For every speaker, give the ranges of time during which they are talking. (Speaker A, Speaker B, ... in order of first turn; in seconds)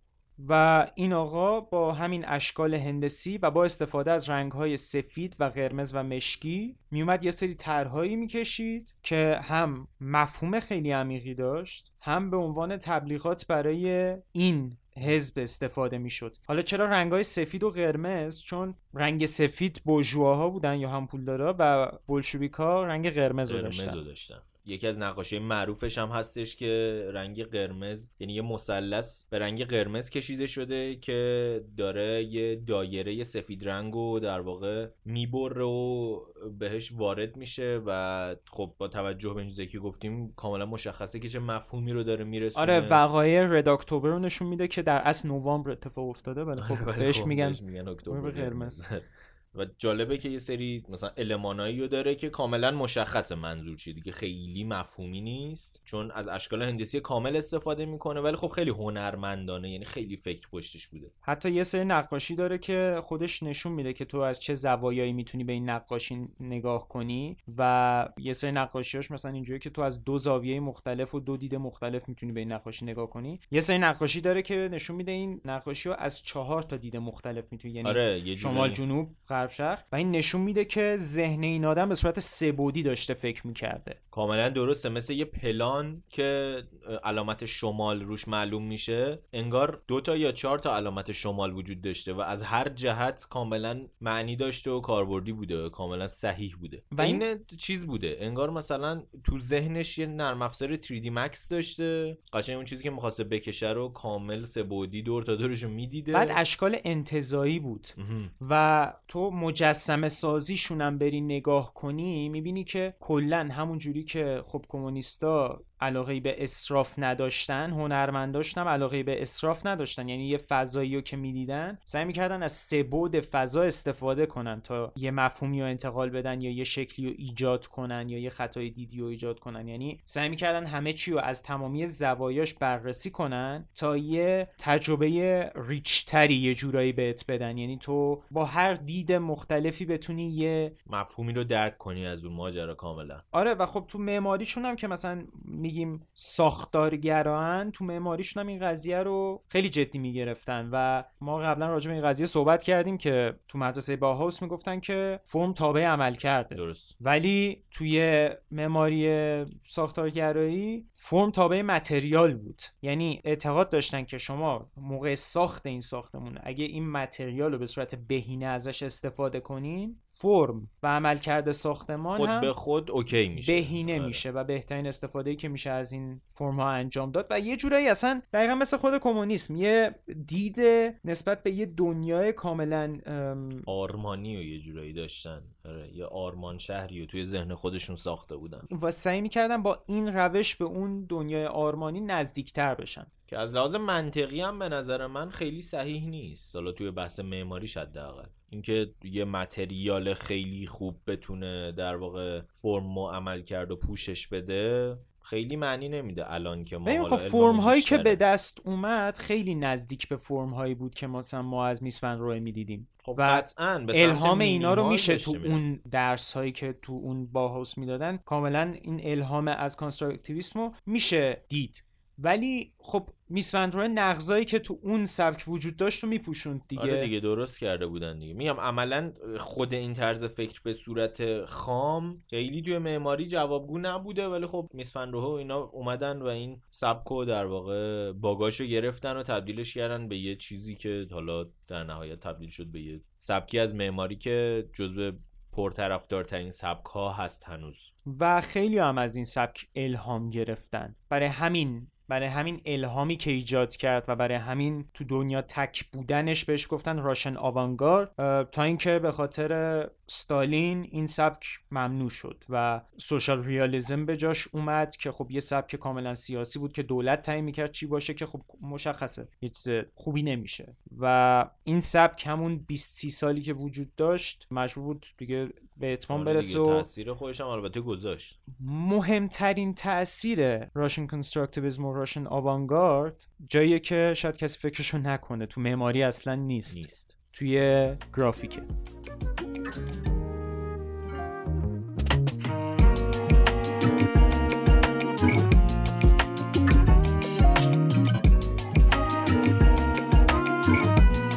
Speaker A: 0.4-24.0, 42.5-48.8, 61.2-84.0, 96.9-97.3, 106.1-140.7, 143.3-172.5, 173.3-183.7, 188.7-193.1, 206.8-227.1, 248.1-276.9, 278.5-288.7
Speaker B: 23.5-43.0, 46.6-61.1, 77.8-78.8, 84.1-106.4, 108.0-108.3, 140.9-143.2, 156.5-156.9, 172.1-174.2, 183.7-188.7, 193.3-208.2, 213.0-215.7, 226.8-247.9, 276.1-278.4, 286.7-287.1